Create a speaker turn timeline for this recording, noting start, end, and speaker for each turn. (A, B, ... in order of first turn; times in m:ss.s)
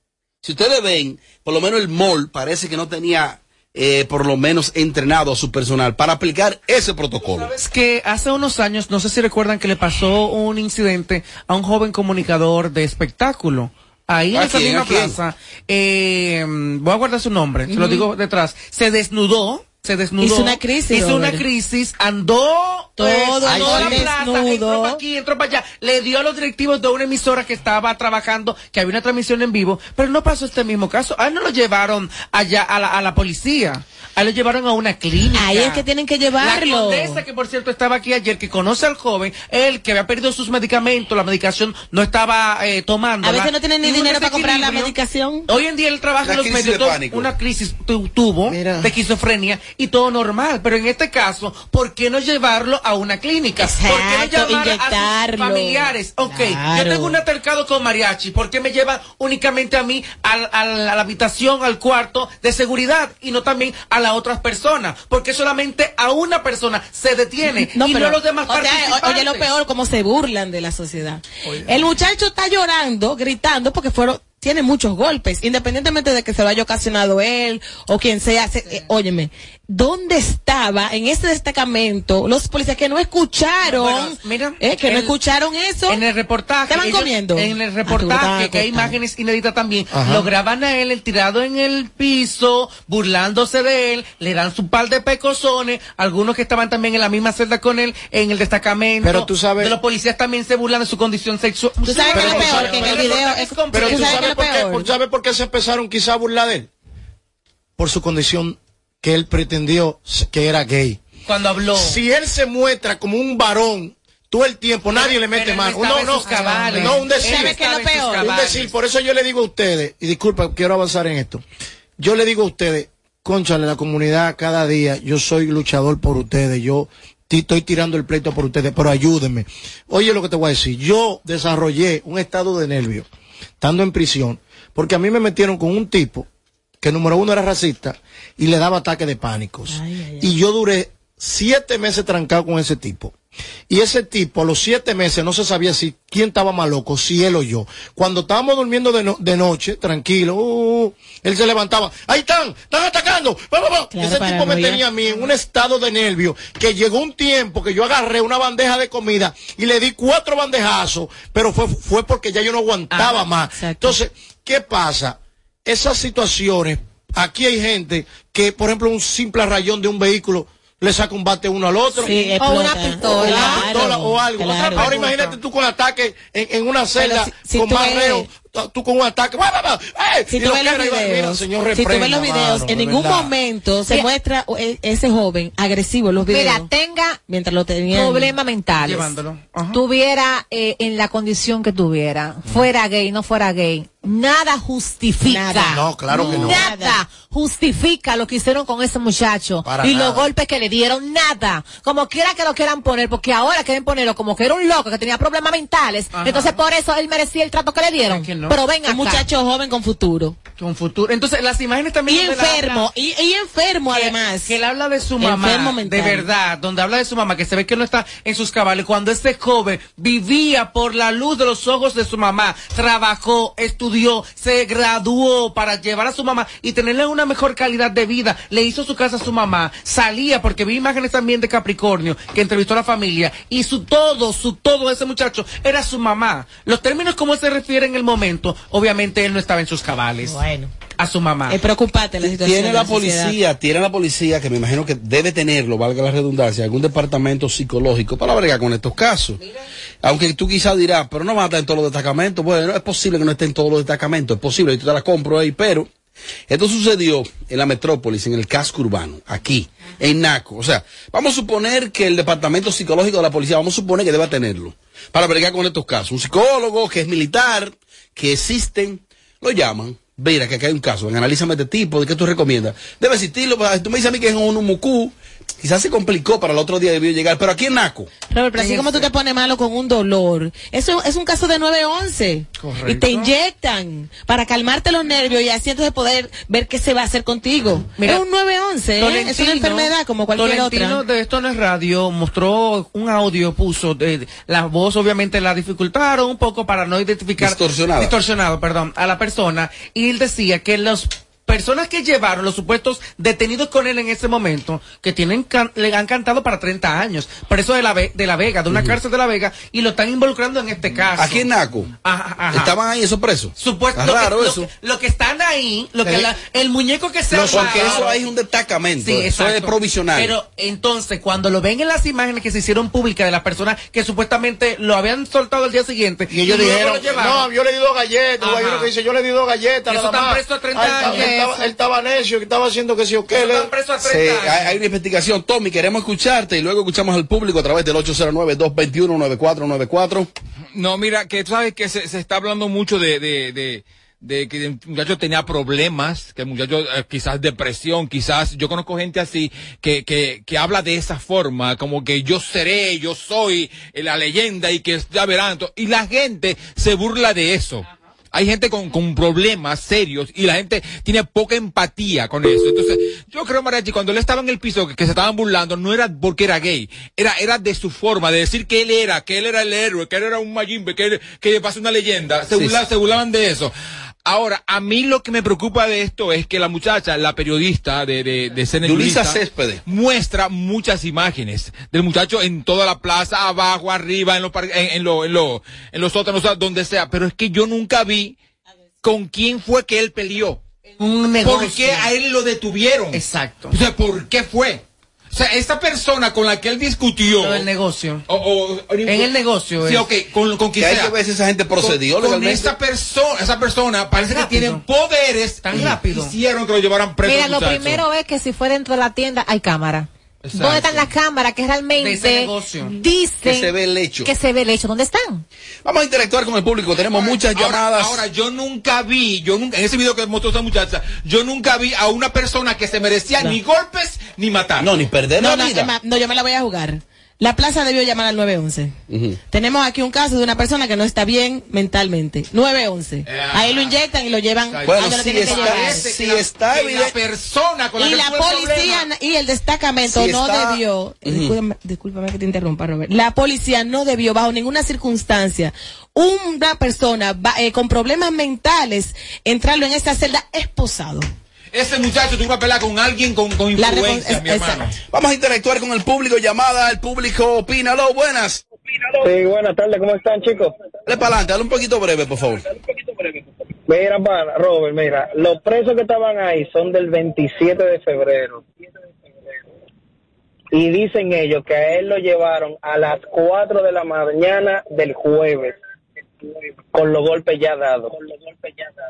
0:00.4-0:07.5 A
0:07.5-0:35.8 B
0:14.3-0:15.2 A
0:17.7-0:18.1 C
0:20.2-0:21.4 C
0:23.0-0:25.0 C
0:23.4-0:24.1 D
0:35.4-0:37.2 C
0:36.4-0:44.9 B
0:43.2-0:45.5 C
0:45.5-1:09.5 B
0:46.2-0:47.3 A
0:48.4-0:48.9 D
0:53.6-0:57.2 C
1:07.5-1:26.0 C
1:23.6-1:25.1 B
1:25.9-1:44.3 B
1:26.7-1:29.0 C
1:29.9-1:30.3 D
1:39.0-1:39.8 D
1:41.8-1:44.9 C
1:42.1-1:46.7 D
1:47.8-1:51.0 D
1:51.2-1:52.0 B
1:51.7-1:57.6 D
1:54.9-1:58.7 B
1:56.2-1:58.4 C
1:58.2-2:01.4 D
2:02.0-2:13.1 D
2:13.6-2:16.3 D
2:16.8-2:23.1 D
2:19.7-2:20.3 C
2:23.7-3:03.3 D
2:33.9-2:34.8 C
2:42.9-2:44.0 C
2:52.0-2:55.1 C
2:52.0-2:53.9 E
2:57.0-2:58.3 C
3:00.3-3:06.7 C
3:06.2-3:07.2 E
3:07.3-3:08.3 C
3:07.9-3:09.1 E
3:08.8-3:09.8 B
3:09.7-3:29.2 E
3:15.2-3:17.0 C
3:15.7-3:16.6 D
3:19.6-3:20.3 D
3:26.1-3:26.6 B
3:28.0-3:28.6 B
3:28.8-3:30.4 C
3:30.6-3:32.9 B
3:32.1-3:34.5 C
3:33.9-4:00.4 B
3:35.2-3:36.3 C
4:00.2-4:00.7 C
4:01.0-4:01.6 B
4:01.5-4:03.4 C
4:02.2-4:09.4 A
4:10.0-4:15.9 A
4:16.5-4:38.1 A
4:38.3-4:51.0 C
4:38.6-4:39.0 B
4:42.6-4:43.3 B
4:48.0-4:48.2 B
4:49.0-5:11.5 B
4:57.4-4:58.1 A
5:08.7-5:09.0 A
5:11.2-5:11.9 A
5:12.0-5:12.8 B
5:12.5-5:14.7 A
5:13.6-5:18.3 B
5:17.3-5:18.0 D
5:17.5-5:20.4 A
5:19.0-5:27.5 B
5:26.3-5:33.7 D
5:28.4-5:28.9 B
5:29.9-5:31.7 B
5:33.3-5:34.7 B
5:34.0-5:40.3 A
5:40.7-6:13.7 F
6:12.5-6:12.8 A
6:14.2-6:28.4 F
6:18.8-6:19.8 A
6:29.0-6:30.6 F
6:31.0-6:32.1 B
6:31.4-6:37.7 F
6:33.1-6:33.8 B
6:37.3-6:38.2 B
6:38.3-6:41.2 F
6:39.0-6:40.1 B
6:40.8-6:42.7 A
6:41.8-6:48.0 F
6:44.2-6:44.8 B
6:45.6-6:46.3 B
6:47.2-6:53.7 E
6:50.4-6:51.0 F
6:50.6-6:51.0 B
6:52.0-6:52.9 B
6:53.4-6:54.3 A
6:54.2-6:55.4 E
6:55.8-6:58.2 A
6:57.0-7:04.9 F
7:04.8-7:05.9 A
7:05.4-7:09.0 C
7:09.1-7:09.4 A
7:09.5-7:16.1 C
7:13.2-7:14.0 F
7:14.7-7:19.1 F
7:14.8-7:17.1 A
7:18.0-7:31.3 C
7:20.1-7:21.5 A
7:31.7-7:35.0 F
7:33.8-7:34.8 C
7:35.1-7:38.6 A
7:40.1-7:40.4 G
7:41.0-7:42.6 A
7:45.0-7:45.5 G
7:46.1-7:47.7 G
7:52.1-7:53.5 G
7:57.0-7:58.0 G